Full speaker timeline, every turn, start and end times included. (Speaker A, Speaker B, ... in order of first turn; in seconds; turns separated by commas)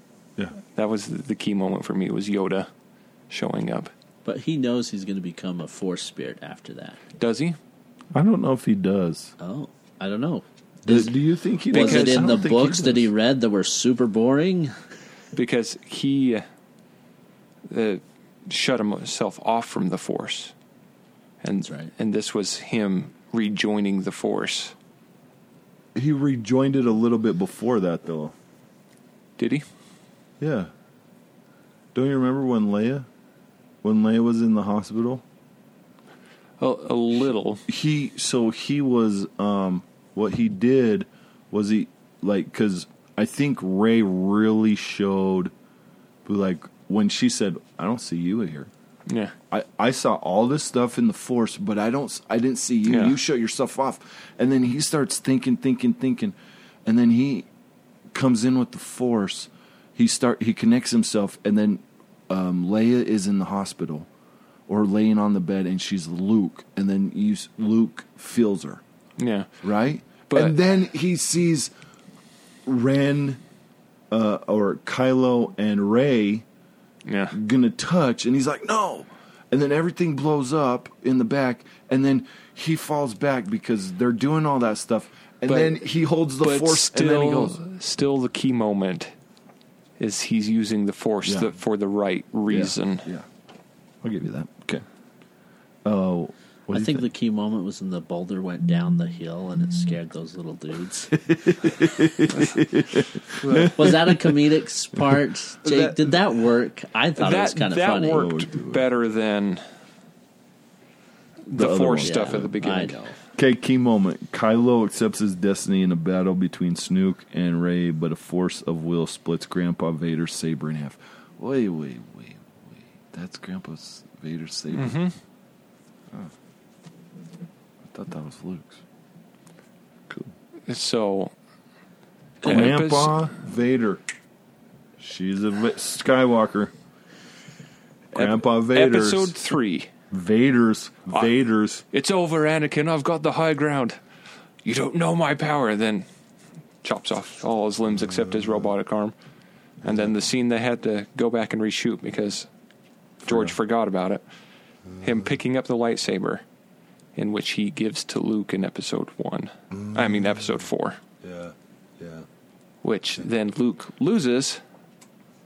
Speaker A: 0.6-2.7, Speaker A: 3.3-3.9, Speaker B: 4.2-7.0, Speaker A: 7.2-7.6, Speaker C: 8.1-9.3, Speaker B: 9.4-11.2, Speaker C: 10.8-13.1, Speaker B: 11.7-14.8, Speaker A: 11.7-12.4, Speaker A: 15.3-16.4, Speaker A: 17.7-20.5, Speaker A: 21.4-24.8, Speaker B: 21.6-21.9, Speaker C: 25.9-28.4, Speaker A: 29.4-29.6, Speaker C: 30.4-30.7, Speaker C: 31.9-33.1, Speaker C: 33.8-35.2, Speaker A: 36.6-37.6, Speaker C: 37.7-45.5, Speaker C: 46.2-48.7, Speaker A: 49.1-49.3, Speaker C: 49.5-57.5, Speaker A: 52.9-53.2, Speaker C: 58.1-64.1, Speaker C: 64.7-68.8, Speaker A: 69.2-69.5, Speaker C: 69.6-71.7, Speaker A: 70.3-70.6, Speaker C: 72.7-73.4, Speaker C: 74.1-76.5, Speaker A: 77.0-77.3, Speaker C: 77.3-87.6, Speaker A: 85.5-85.8, Speaker A: 86.4-89.1, Speaker A: 90.0-93.1, Speaker C: 91.2-91.5, Speaker C: 92.5-93.3, Speaker C: 94.0-94.8, Speaker C: 95.8-97.1, Speaker B: 96.7-101.8, Speaker C: 101.2-104.4, Speaker A: 103.4-104.0, Speaker B: 103.6-108.3, Speaker C: 105.0-105.8, Speaker A: 107.2-109.6, Speaker C: 108.0-108.9, Speaker A: 111.5-113.0, Speaker C: 111.5-112.5, Speaker B: 112.0-113.2, Speaker C: 113.4-125.0, Speaker A: 124.8-125.2, Speaker C: 127.8-128.8, Speaker A: 130.7-131.3, Speaker A: 132.4-133.2, Speaker C: 132.4-134.0, Speaker C: 135.0-136.7, Speaker C: 138.1-139.3, Speaker A: 138.2-139.9, Speaker C: 140.1-141.8, Speaker A: 141.9-144.0, Speaker A: 144.6-146.1, Speaker A: 146.8-149.2, Speaker C: 148.1-148.7, Speaker C: 149.8-150.1, Speaker A: 149.8-152.5, Speaker C: 153.2-153.6, Speaker A: 153.2-154.2, Speaker C: 154.9-155.4, Speaker A: 155.0-156.4, Speaker A: 157.2-161.0, Speaker C: 159.7-160.7, Speaker C: 161.2-162.3, Speaker A: 162.8-164.6